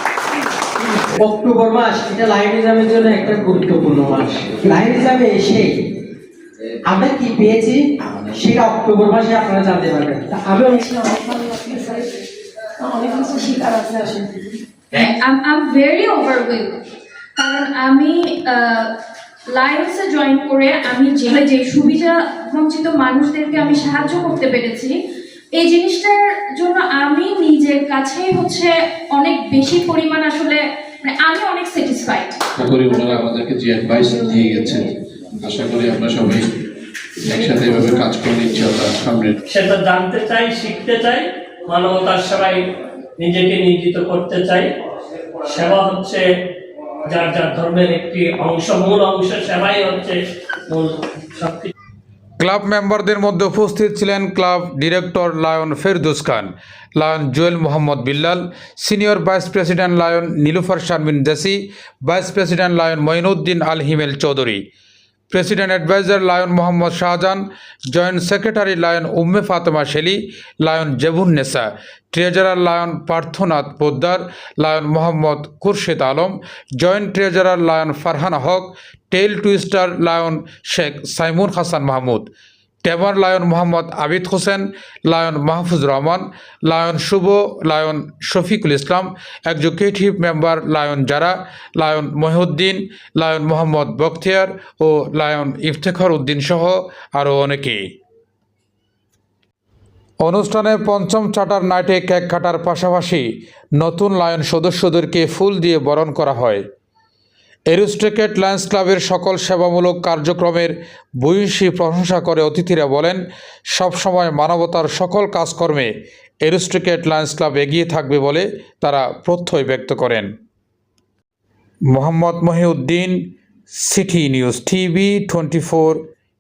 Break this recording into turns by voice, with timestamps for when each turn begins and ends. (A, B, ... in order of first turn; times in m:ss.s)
0:01.2-0:05.7 A
0:06.9-0:07.8 A
0:08.4-0:10.6 A
0:10.8-0:11.9 B
0:12.9-0:14.2 B
0:14.9-0:16.7 C
0:17.4-0:18.9 C
0:19.5-0:25.0 C
0:25.6-0:32.4 C
0:32.6-0:34.8 D
0:35.4-0:36.4 D
0:37.3-0:39.3 D
0:39.5-0:42.6 E
0:43.2-0:44.7 E
0:45.5-0:46.2 E
0:47.1-0:50.2 E
0:50.7-0:51.7 E
0:52.4-1:04.6 F
1:05.3-1:22.3 F
1:22.8-1:37.8 F
1:40.2-1:43.3 F
1:43.8-1:46.6 F
1:47.7-1:53.2 F
1:53.7-1:55.9 F
1:56.4-2:00.3 F
2:01.9-2:03.2 F
2:03.8-2:06.0 F